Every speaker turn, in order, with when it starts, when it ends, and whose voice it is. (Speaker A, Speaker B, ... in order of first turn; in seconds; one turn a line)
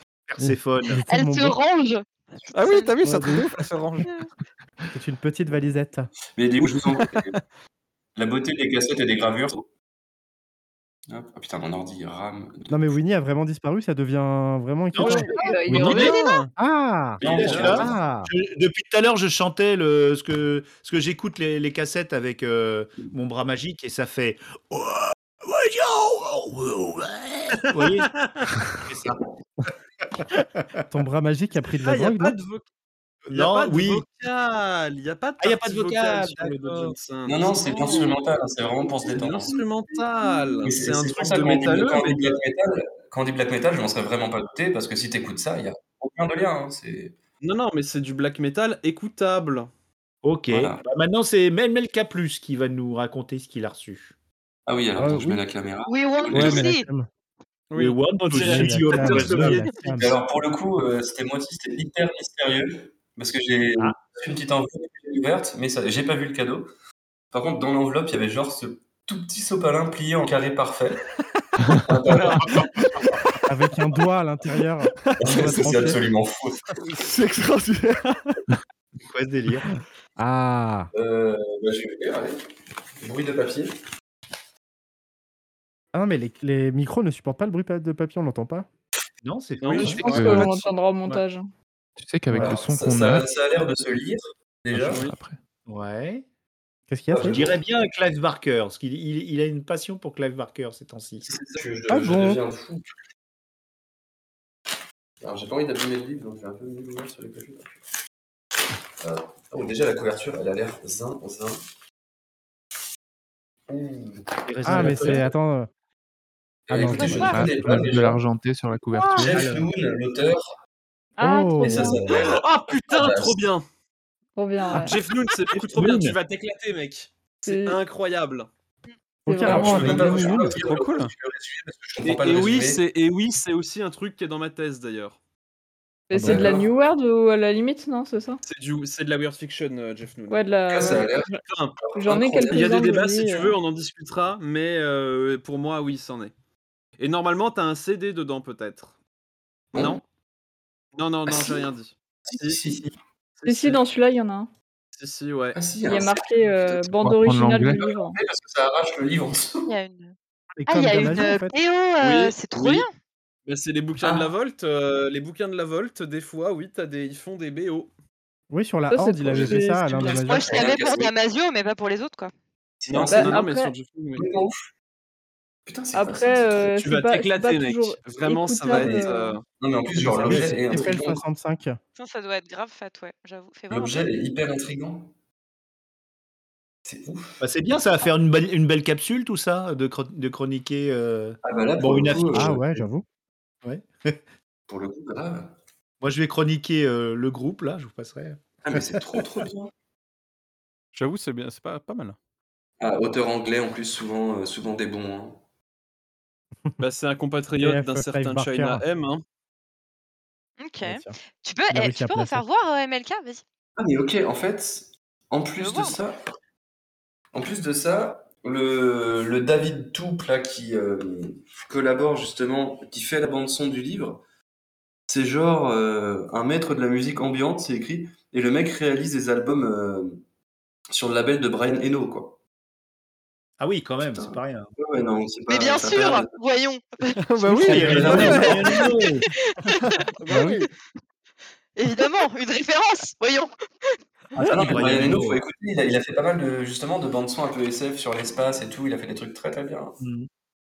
Speaker A: 0.3-1.0
Speaker B: 0.4-1.6
Speaker C: 1.1-2.9
Speaker D: 2.5-4.1
Speaker B: 3.0-3.5
Speaker B: 4.9-6.1
Speaker E: 6.3-7.4
Speaker D: 6.7-7.4
Speaker E: 8.2-9.6
Speaker E: 11.1-12.9
Speaker B: 12.7-16.0
Speaker A: 14.9-16.2
Speaker C: 15.4-16.3
Speaker F: 15.6-16.1
Speaker D: 15.7-16.5
Speaker B: 16.6-18.3
Speaker E: 17.2-17.9
Speaker A: 17.2-28.1
Speaker G: 27.7-28.5
Speaker A: 28.8-29.2
Speaker B: 30.9-32.4
Speaker G: 31.8-32.6
Speaker A: 33.3-34.0
Speaker G: 33.3-38.1
Speaker A: 35.4-37.0
Speaker E: 37.2-39.6
Speaker G: 39.0-42.4
Speaker E: 40.6-47.1
Speaker G: 47.4-49.7
Speaker A: 50.2-54.1
Speaker E: 50.5-50.8
Speaker E: 54.7-56.7
Speaker B: 55.0-55.4
Speaker C: 55.9-56.8
Speaker B: 56.3-57.1
Speaker G: 57.7-59.9
Speaker A: 57.8-59.7
Speaker B: 58.3-60.1
Speaker E: 59.9-66.7
Speaker E: 67.3-71.0
Speaker E: 71.8-72.7
Speaker A: 72.4-72.7
Speaker B: 73.5-76.0
Speaker E: 75.2-76.6
Speaker D: 76.8-78.4
Speaker A: 79.1-79.7
Speaker B: 80.2-80.9
Speaker E: 80.9-82.4
Speaker E: 83.0-83.7
Speaker B: 85.9-88.7
Speaker A: 89.2-90.3
Speaker G: 89.6-90.2
Speaker D: 89.8-90.7
Speaker F: 89.9-91.5
Speaker H: 90.0-90.5
Speaker H: 92.0-93.3
Speaker E: 92.3-95.0
Speaker H: 94.7-95.4
Speaker A: 95.7-96.2
Speaker B: 96.9-97.4
Speaker E: 97.1-97.6
Speaker A: 97.3-101.3
Speaker E: 101.2-102.8
Speaker B: 101.9-102.4
Speaker E: 105.2-107.8
Speaker E: 109.0-111.6
Speaker E: 113.7-115.3
Speaker A: 114.5-115.3
Speaker B: 114.6-115.7
Speaker E: 116.7-118.2
Speaker B: 116.7-117.8
Speaker C: 116.9-117.4
Speaker H: 117.2-119.5
Speaker E: 119.1-120.5
Speaker F: 121.2-122.2
Speaker B: 121.2-122.0
Speaker E: 121.6-123.4
Speaker G: 122.1-123.6
Speaker F: 124.3-125.0
Speaker G: 124.7-128.5
Speaker A: 125.7-126.1
Speaker F: 127.4-127.8
Speaker B: 129.2-130.6
Speaker F: 129.3-129.6
Speaker E: 129.4-132.8
Speaker D: 129.7-131.1
Speaker G: 132.0-135.2
Speaker F: 136.1-138.4
Speaker E: 136.2-136.7
Speaker G: 138.4-140.9
Speaker F: 140.3-141.4
Speaker E: 140.7-142.8
Speaker G: 141.4-141.8
Speaker F: 141.9-143.6
Speaker G: 142.5-146.3
Speaker G: 147.0-148.9
Speaker E: 149.7-150.0
Speaker G: 149.7-150.0
Speaker G: 150.9-153.8
Speaker E: 151.3-151.7
Speaker E: 152.3-152.9
Speaker F: 153.4-154.5
Speaker G: 154.9-155.6
Speaker E: 155.5-156.9
Speaker F: 155.8-158.2
Speaker H: 157.0-157.9
Speaker E: 157.7-159.7
Speaker C: 159.7-160.2
Speaker B: 160.6-161.5
Speaker C: 160.7-162.9
Speaker G: 162.0-162.8
Speaker G: 163.5-167.9
Speaker E: 164.0-164.3
Speaker B: 168.5-170.6
Speaker F: 168.9-170.1
Speaker E: 169.2-171.1
Speaker C: 170.2-172.3
Speaker E: 172.8-173.4
Speaker G: 172.9-174.4
Speaker F: 173.0-173.7
Speaker E: 174.2-174.7
Speaker E: 175.7-176.8
Speaker F: 175.9-179.4
Speaker G: 176.8-179.4
Speaker E: 178.7-181.2
Speaker A: 180.2-180.8
Speaker B: 180.2-181.8
Speaker C: 181.9-184.1
Speaker E: 183.7-185.1
Speaker E: 186.8-187.4
Speaker A: 187.4-192.8
Speaker E: 191.4-192.7
Speaker B: 192.3-193.0
Speaker A: 193.6-194.2
Speaker E: 194.7-195.5
Speaker A: 196.0-199.4
Speaker E: 198.6-199.7
Speaker D: 200.9-202.2
Speaker E: 202.8-205.4
Speaker G: 206.8-209.2
Speaker B: 207.6-208.8
Speaker C: 210.6-213.4
Speaker B: 210.8-211.1
Speaker B: 211.7-212.4
Speaker E: 213.8-216.2
Speaker C: 215.6-216.0
Speaker E: 217.3-224.2
Speaker E: 225.1-230.2
Speaker E: 230.9-232.4
Speaker A: 233.6-234.7
Speaker E: 234.0-236.3
Speaker C: 235.5-238.9
Speaker D: 237.2-238.6
Speaker E: 237.5-238.9
Speaker A: 237.6-239.3
Speaker B: 238.0-238.3
Speaker C: 239.6-240.5
Speaker D: 239.8-240.7
Speaker B: 240.3-240.6
Speaker C: 241.8-243.5
Speaker E: 244.3-250.0
Speaker A: 244.5-245.4
Speaker A: 250.0-250.3